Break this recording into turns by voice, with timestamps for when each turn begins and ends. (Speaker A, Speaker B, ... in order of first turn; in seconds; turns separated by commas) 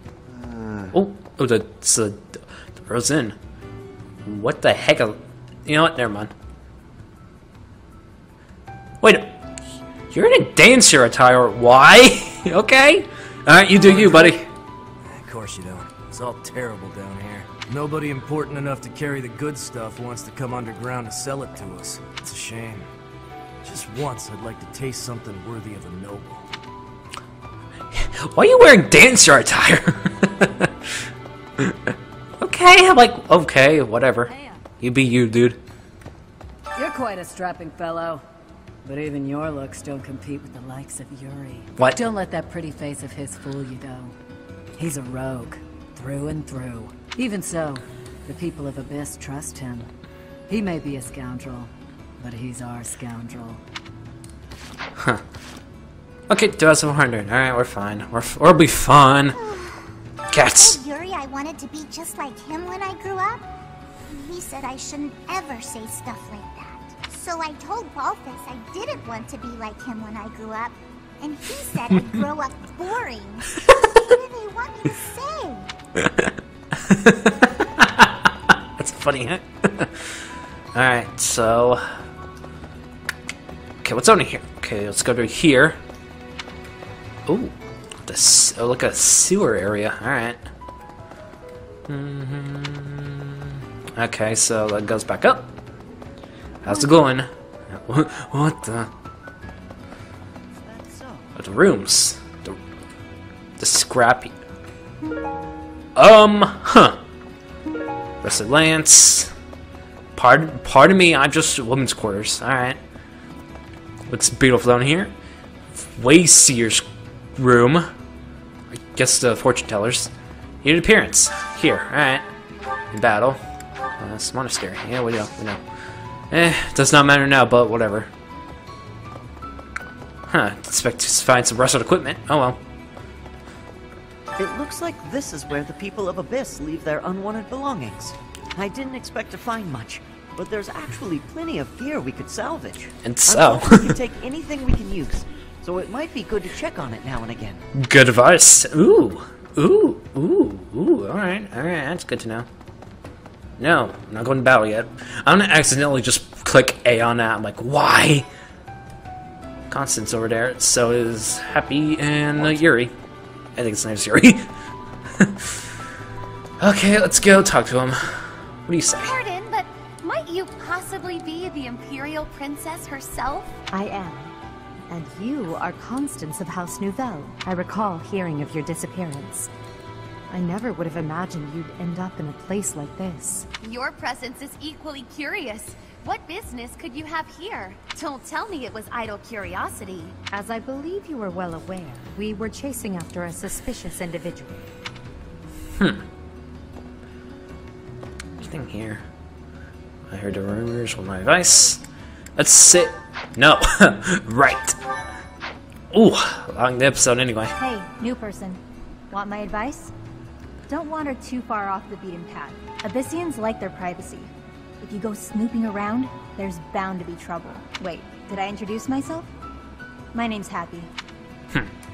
Speaker A: 0.9-3.4, Speaker A: 4.2-6.3, Speaker A: 9.0-9.4, Speaker A: 10.1-14.4, Speaker B: 15.3-22.8, Speaker B: 23.6-26.4, Speaker A: 27.9-30.9, Speaker A: 31.6-35.6, Speaker C: 36.8-38.2, Speaker C: 38.9-44.1, Speaker C: 44.8-49.9, Speaker C: 50.5-53.6, Speaker A: 56.3-59.4, Speaker D: 59.4-59.9, Speaker A: 60.3-60.8, Speaker D: 60.4-63.5, Speaker D: 64.1-75.7, Speaker A: 76.0-76.3, Speaker A: 76.8-80.1, Speaker A: 80.7-81.9, Speaker A: 83.8-85.8, Speaker A: 87.3-87.5, Speaker A: 88.1-90.4, Speaker A: 91.9-95.5, Speaker A: 96.6-98.9, Speaker E: 100.6-101.3, Speaker A: 101.3-102.6, Speaker A: 103.6-104.3, Speaker A: 105.9-107.0, Speaker A: 108.2-109.3, Speaker A: 110.2-112.8, Speaker A: 114.1-115.1, Speaker A: 115.8-116.8, Speaker A: 117.3-117.9, Speaker A: 118.7-120.1, Speaker A: 120.6-122.3, Speaker A: 122.9-123.4, Speaker A: 124.0-125.6, Speaker A: 126.3-128.1, Speaker A: 130.3-132.6, Speaker E: 134.3-147.7, Speaker A: 143.0-143.9, Speaker A: 147.7-152.5, Speaker A: 153.6-158.3, Speaker A: 159.7-162.9, Speaker A: 163.6-164.5, Speaker A: 165.2-165.6, Speaker A: 166.6-169.1, Speaker F: 169.0-173.6, Speaker G: 173.7-174.3, Speaker G: 174.9-179.5, Speaker G: 180.3-183.5, Speaker F: 183.6-190.2, Speaker G: 190.3-194.7, Speaker A: 198.4-199.0, Speaker A: 200.1-201.8, Speaker A: 202.4-204.8, Speaker A: 205.9-207.6, Speaker H: 207.6-209.9, Speaker H: 210.7-214.3, Speaker H: 214.8-219.3, Speaker H: 220.1-220.9